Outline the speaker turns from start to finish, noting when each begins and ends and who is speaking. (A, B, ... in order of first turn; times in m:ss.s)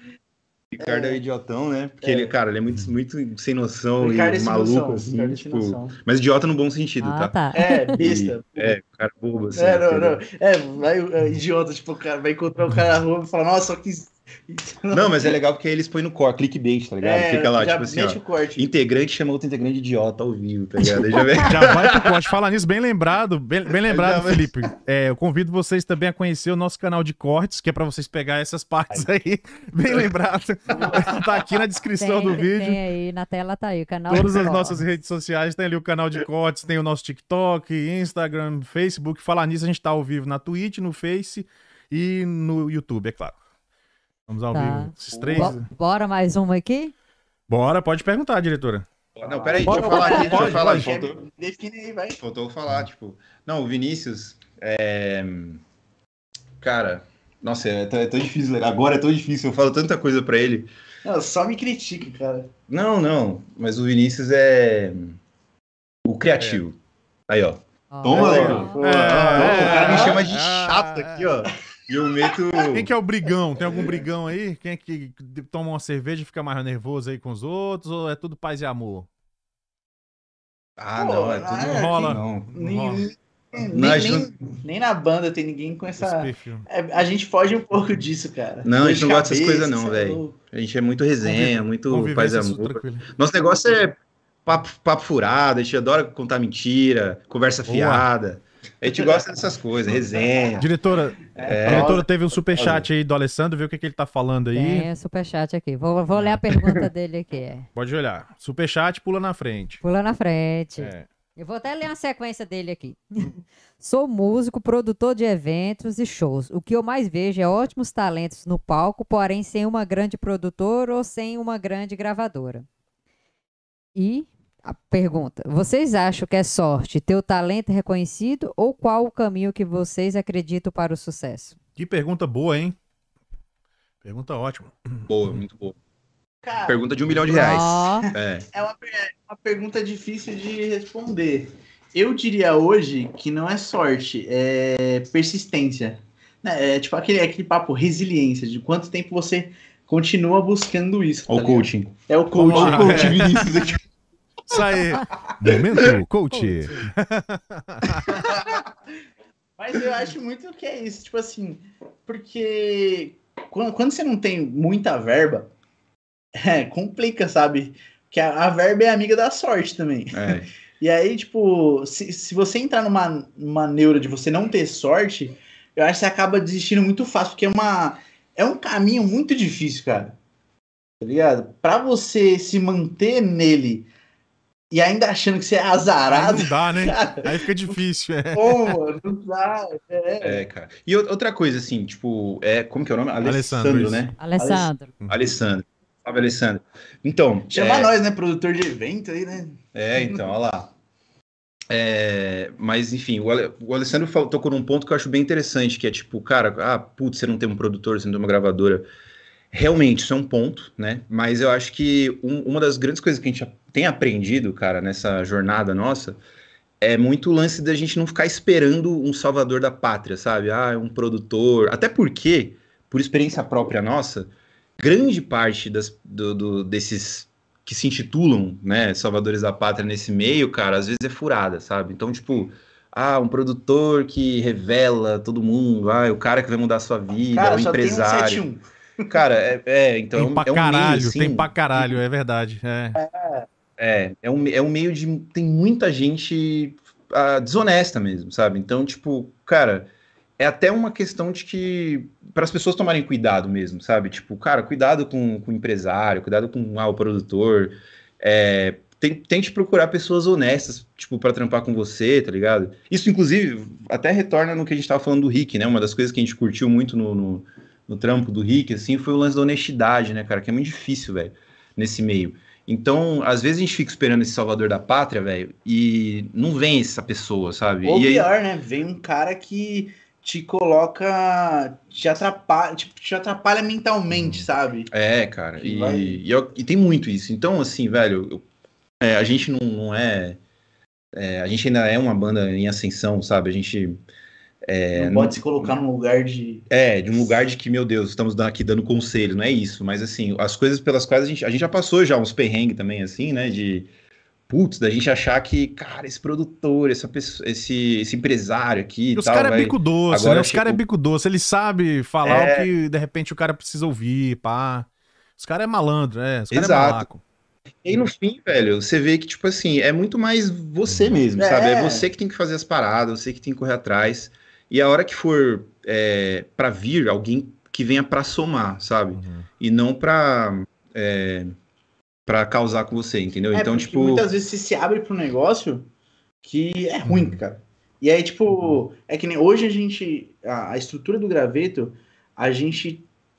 0:00.7-0:07.4 A
0:00.8-0:01.2 B
0:02.0-0:02.3 B
0:04.0-0:06.0 B
0:07.0-0:07.9 C
0:07.5-0:08.8 B
0:07.9-0:10.2 A
0:09.5-0:15.4 B
0:14.9-0:22.3 A
0:17.0-0:18.7 B
0:21.4-0:32.8 D
0:23.9-0:24.5 A
0:32.0-0:34.8 C
0:34.1-0:43.4 D
0:44.3-0:45.7 D
0:44.5-0:46.9 C
0:45.1-0:45.6 A
0:47.5-0:48.8 D
0:49.2-0:51.2 A
0:49.2-0:52.2 B
0:49.6-0:50.4 C
0:49.7-0:50.9 D
0:52.2-0:55.6 A
0:56.6-1:00.7 A
1:01.0-1:02.5 B
1:02.7-1:05.2 A
1:06.0-1:06.8 A
1:06.4-1:06.6 D
1:07.3-1:12.9 A
1:07.9-1:08.8 C
1:08.1-1:10.2 B
1:08.2-1:11.3 D
1:12.7-1:19.1 D
1:13.6-1:14.0 B
1:20.8-1:22.5 A
1:21.0-1:30.4 B
1:21.6-1:23.1 D
1:23.7-1:24.3 A
1:26.0-1:26.7 D
1:28.6-1:40.7 A
1:31.2-1:33.1 D
1:37.7-1:38.1 D
1:40.6-1:44.9 D
1:41.3-1:42.0 B
1:41.4-1:42.9 A
1:44.5-1:47.7 C
1:46.1-1:46.4 D
1:47.7-1:49.8 D
1:49.8-2:02.7 C
1:50.8-1:51.0 D
2:04.0-2:11.6 C
2:11.8-2:12.8 D
2:14.0-2:15.1 D
2:15.1-2:15.8 A
2:16.4-2:33.8 B
2:16.6-2:18.4 A
2:17.3-2:18.1 C
2:31.3-2:32.0 A
2:32.3-2:33.6 D
2:32.5-2:33.8 A
2:34.5-2:38.3 D
2:35.2-2:35.9 B
2:38.0-2:38.7 B
2:39.6-2:45.5 B
2:46.4-3:00.2 B
2:50.1-2:50.5 A
3:01.0-3:03.9 B
3:04.7-3:07.7 B
3:06.1-3:08.8 D
3:08.3-3:10.4 B
3:10.2-3:14.2 A
3:13.2-3:14.1 D
3:14.2-3:14.9 C
3:14.4-3:14.7 B
3:15.1-3:17.9 A
3:17.5-3:20.2 B
3:19.7-3:20.7 A
3:21.7-3:28.8 A
3:29.5-3:36.2 A
3:36.8-3:58.4 A
3:57.3-3:59.1 B
3:59.1-4:02.0 A
4:00.1-4:03.0 D
4:02.9-4:03.5 B
4:03.8-4:38.3 A
4:37.8-4:44.9 B
4:44.1-4:44.4 D
4:44.9-4:48.4 A
4:45.6-4:46.2 B
4:49.0-4:50.4 A
4:51.1-4:54.0 A
4:54.6-4:55.7 A
4:54.9-4:56.6 B
4:56.7-5:03.9 A
5:04.5-5:10.8 A
5:09.1-5:17.2 D
5:12.2-5:12.7 A
5:16.5-5:17.1 A
5:17.8-5:31.5 A
5:20.9-5:21.2 D
5:21.4-5:22.1 B
5:29.1-5:29.5 D
5:32.2-5:34.3 A
5:33.5-5:35.9 B
5:36.4-5:43.0 B
5:37.0-5:37.4 D